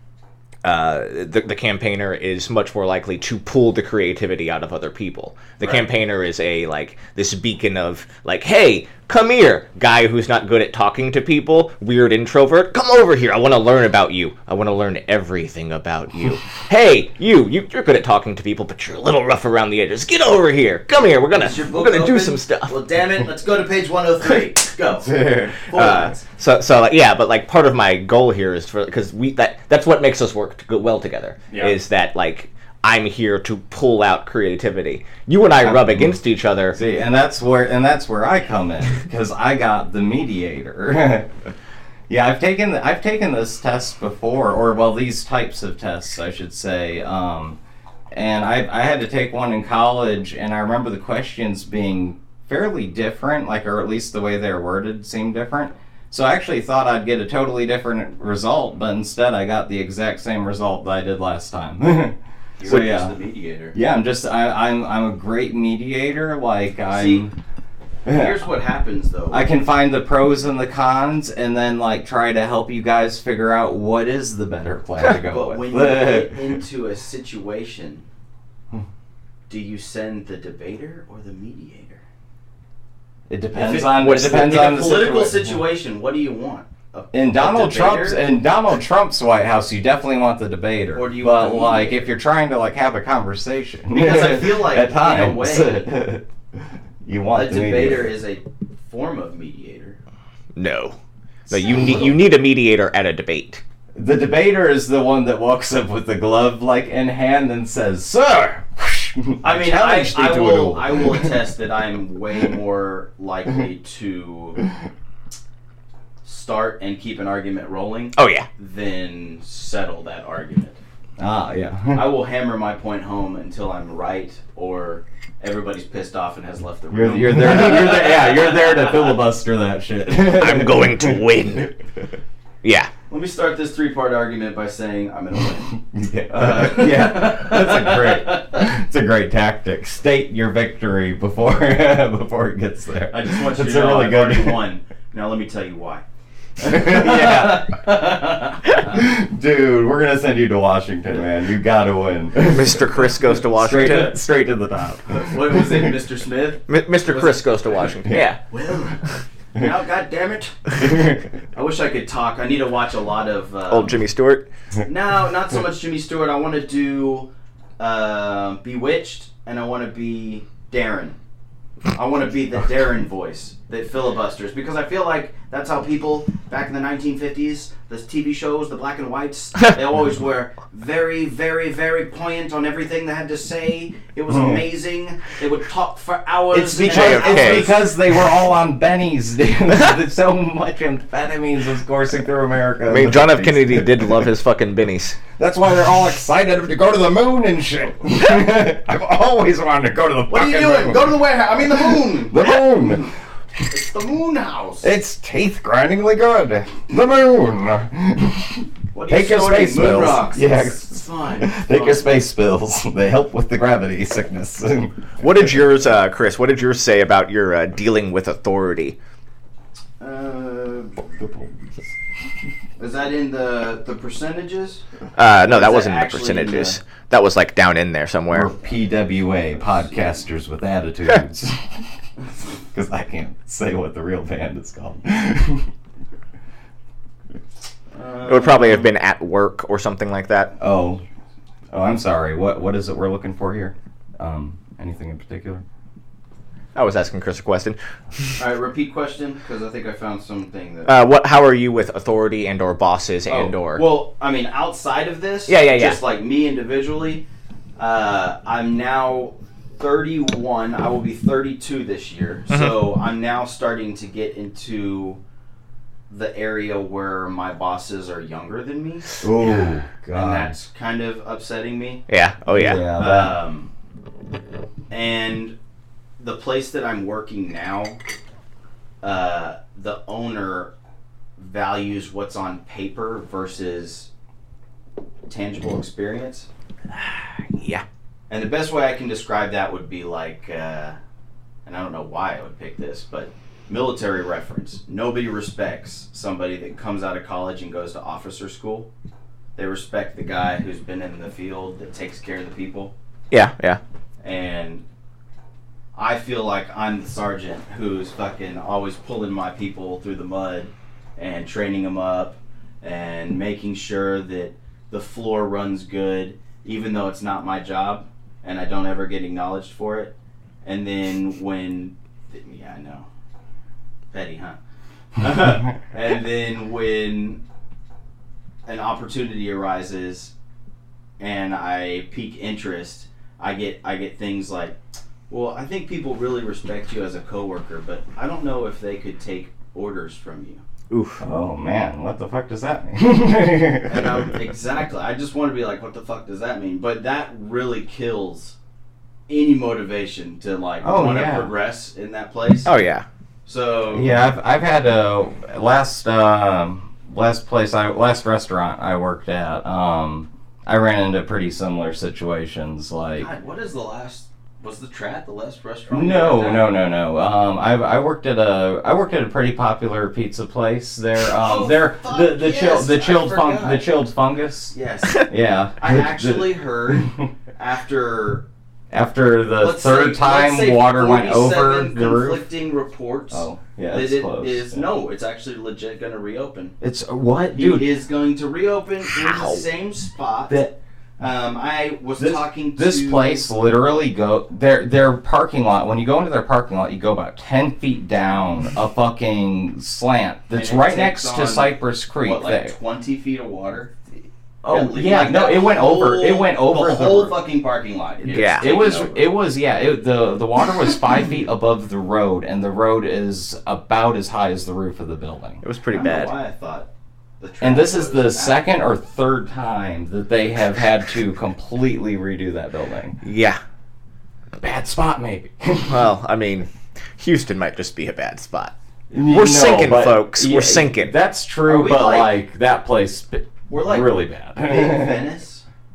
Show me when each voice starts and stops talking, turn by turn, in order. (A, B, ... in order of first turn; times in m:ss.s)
0:00.6-0:22.8 A
0:21.3-0:26.2 B
0:25.0-0:25.6 C
0:25.7-0:36.8 A
0:31.5-0:31.8 B
0:35.6-0:36.2 C
0:36.7-0:41.3 C
0:42.1-0:47.6 C
0:48.1-1:03.2 C
1:02.6-1:03.8 B
1:03.7-1:07.3 C
1:06.9-1:07.3 B
1:08.0-1:08.4 C
1:08.1-1:09.5 B
1:09.3-1:16.6 C
1:15.3-1:18.0 B
1:19.5-1:22.0 B
1:23.3-1:25.6 C
1:23.5-1:28.2 B
1:24.0-1:24.6 A
1:27.1-1:36.2 C
1:30.9-1:32.1 B
1:33.9-1:35.9 B
1:37.0-1:38.1 C
1:37.3-1:40.0 B
1:40.6-1:41.0 A
1:41.5-1:43.6 A
1:41.7-1:42.0 B
1:44.0-1:51.3 C
1:49.4-1:54.6 B
1:56.2-2:00.8 B
1:58.2-1:58.5 A
2:01.2-2:02.1 C
2:01.9-2:09.2 B
2:06.9-2:11.2 C
2:10.3-2:11.7 A
2:12.6-2:12.9 A
2:13.1-2:15.8 B
2:15.8-2:24.6 C
2:16.3-2:18.7 B
2:23.1-2:26.0 B
2:26.6-2:29.0 B
2:26.6-2:27.7 C
2:28.8-2:35.8 C
2:32.5-2:34.2 A
2:35.1-2:37.9 B
2:36.7-2:38.4 A
2:38.5-2:40.7 B
2:40.8-2:41.2 C
2:41.5-2:44.0 B
2:43.7-2:44.5 A
2:44.9-2:51.2 B
2:51.9-3:07.8 B
3:04.3-3:04.6 C
3:06.5-3:14.2 C
3:06.9-3:07.7 A
3:12.9-3:15.2 A
3:15.4-3:23.1 C
3:20.3-3:22.5 B
3:23.7-3:24.9 B
3:24.8-3:35.0 C
3:28.9-3:32.2 B
3:35.2-3:39.0 A
3:40.0-3:41.1 B
3:41.2-3:41.5 C
3:42.8-3:44.8 B
3:45.2-3:48.5 A
3:45.5-3:46.8 B
3:48.3-3:51.9 C
3:52.7-3:55.7 C
3:57.9-3:58.9 B
3:58.3-4:00.5 A
4:00.6-4:01.0 C
4:01.7-4:05.6 C
4:06.8-4:07.8 A
4:08.4-4:11.0 B
4:10.9-4:13.8 A
4:13.3-4:17.2 B
4:15.5-4:16.0 A
4:17.8-4:25.2 B
4:22.5-4:22.8 A
4:26.1-4:29.6 B
4:29.2-4:30.6 C
4:30.1-4:32.0 B
4:32.1-4:32.8 A
4:32.5-4:33.4 C
4:32.9-4:33.7 B
4:34.9-4:35.6 B
4:36.2-4:38.0 B
4:39.0-4:40.7 B
4:41.4-4:44.1 B
4:45.3-4:46.5 B
4:46.9-4:47.8 A
4:48.3-4:51.0 B
4:51.7-4:58.9 B
4:59.6-5:02.9 B
5:03.3-5:03.8 A
5:04.2-5:04.8 B
5:06.0-5:23.1 B
5:24.1-5:24.6 B
5:25.2-5:27.4 B
5:28.7-5:30.3 B
5:31.2-5:34.8 B
5:35.3-5:40.6 B
5:40.9-5:41.2 A
5:41.2-5:44.3 C
5:43.9-5:48.6 B
5:49.3-5:52.7 B
5:50.8-5:51.5 C
5:52.6-5:53.1 A
5:53.5-5:54.1 B
5:53.9-6:03.3 C
6:03.2-6:06.7 B
6:05.9-6:17.3 C
6:11.3-6:13.9 B
6:14.7-6:18.4 B
6:18.9-6:22.4 C
6:19.6-6:26.7 B
6:23.3-6:24.9 C
6:26.8-6:27.9 C
6:27.6-6:30.6 B
6:29.1-6:29.6 A
6:30.5-6:30.8 C
6:31.2-6:33.4 B
6:32.2-6:42.8 C
6:40.5-6:43.9 B
6:44.6-6:47.4 C
6:44.7-6:49.3 B
6:48.2-6:55.6 C
6:48.3-6:48.7 A
6:55.6-6:56.3 A
6:55.9-6:56.9 B
6:57.4-6:58.6 B
6:57.6-7:03.2 C
7:03.2-7:03.6 A
7:04.6-7:06.1 C
7:05.9-7:08.7 A
7:09.1-7:15.2 C
7:09.3-7:11.1 A
7:11.6-7:12.3 B
7:13.7-7:15.6 B